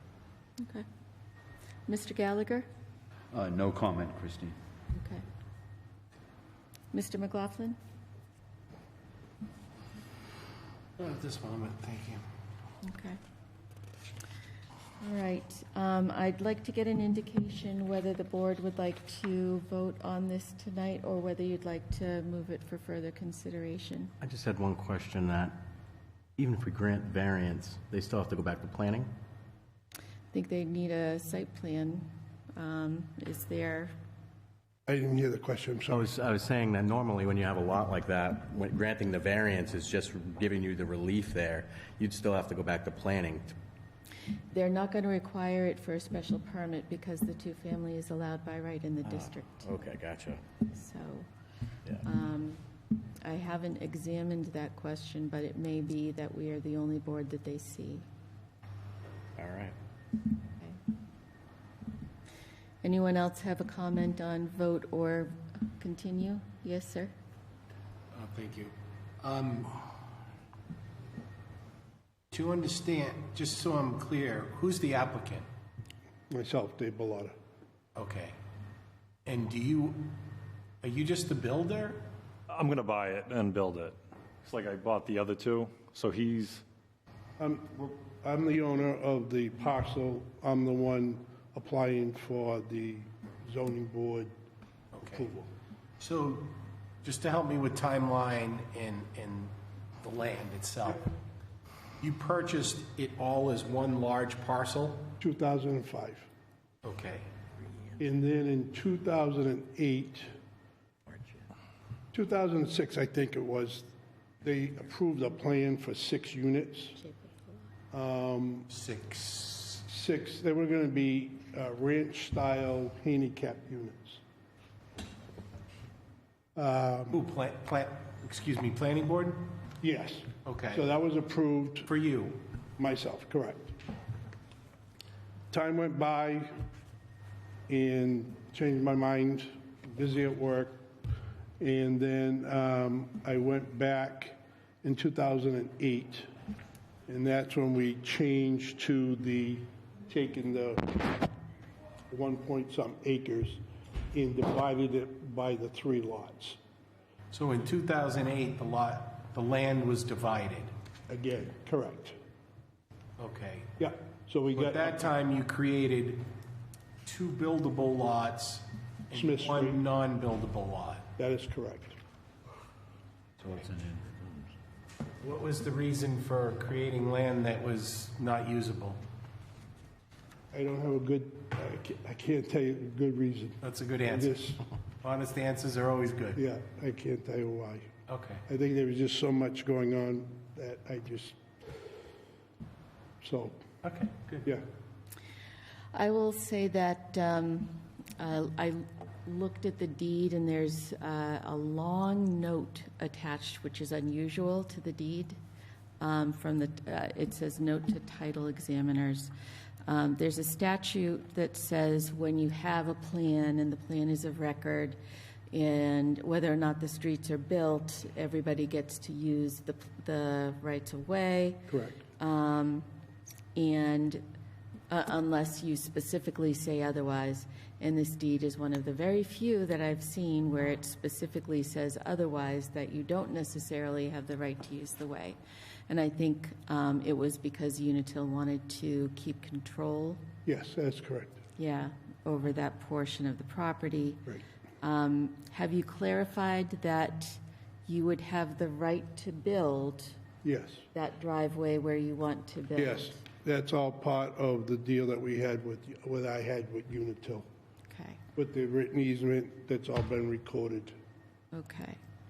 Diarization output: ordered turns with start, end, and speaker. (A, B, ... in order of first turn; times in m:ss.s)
0:00.6-0:00.9 A
0:01.9-0:02.7 A
0:03.3-0:04.6 B
0:04.9-0:05.2 A
0:06.9-0:07.8 A
0:11.0-0:12.2 C
0:12.8-0:13.2 A
0:15.0-0:24.1 A
0:24.2-0:25.6 D
0:26.4-0:29.1 D
0:30.3-0:33.9 A
0:34.9-0:36.1 E
0:35.9-0:43.5 D
0:44.5-0:49.9 A
0:49.1-0:50.4 D
0:50.7-0:51.3 A
0:52.0-0:52.6 A
0:53.2-0:58.0 A
0:59.4-0:59.8 D
1:02.8-1:07.1 A
1:08.1-1:09.8 C
1:12.3-1:15.5 C
1:16.3-1:17.3 E
1:18.0-1:18.4 C
1:19.3-1:20.2 C
1:20.8-1:22.0 C
1:22.5-1:26.6 F
1:27.4-1:34.3 E
1:34.9-1:35.3 C
1:35.0-1:35.5 E
1:36.0-1:41.1 C
1:42.0-1:45.1 C
1:45.2-1:46.3 E
1:46.8-1:47.2 C
1:48.0-1:50.3 E
1:52.1-1:53.9 E
1:54.4-1:57.0 E
1:57.0-1:57.5 A
1:57.9-1:58.7 E
1:58.7-1:59.8 C
1:59.9-2:04.2 E
2:06.6-2:07.2 E
2:07.1-2:09.6 C
2:09.8-2:11.9 E
2:10.4-2:10.9 C
2:11.9-2:12.4 C
2:12.8-2:13.8 E
2:15.5-2:16.5 E
2:17.7-2:20.8 E
2:21.6-2:26.3 E
2:27.1-2:31.2 E
2:32.1-2:36.6 E
2:37.3-2:40.7 C
2:41.1-2:42.2 E
2:43.2-2:43.7 C
2:43.8-2:45.1 E
2:44.5-2:46.3 C
2:47.0-2:51.0 C
2:49.1-2:49.8 E
2:51.2-2:52.0 E
2:53.4-2:54.5 B
2:55.2-2:59.0 C
3:00.5-3:04.6 E
3:03.6-3:04.4 C
3:05.0-3:06.4 C
3:06.4-3:07.9 E
3:08.1-3:08.4 C
3:08.5-3:11.4 E
3:13.2-3:13.6 E
3:13.8-3:14.5 C
3:15.9-3:25.4 A
3:26.0-3:29.3 A
3:29.9-3:35.0 A
3:35.5-3:42.9 A
3:41.7-3:42.0 E
3:43.6-3:44.2 A
3:44.9-4:00.2 A
4:00.5-4:01.4 E
4:01.6-4:04.2 A
4:04.8-4:10.2 A
4:10.4-4:10.9 E
4:10.9-4:13.2 A
4:12.8-4:17.5 E
4:17.9-4:18.2 A
4:18.4-4:21.0 E
4:21.5-4:22.0 A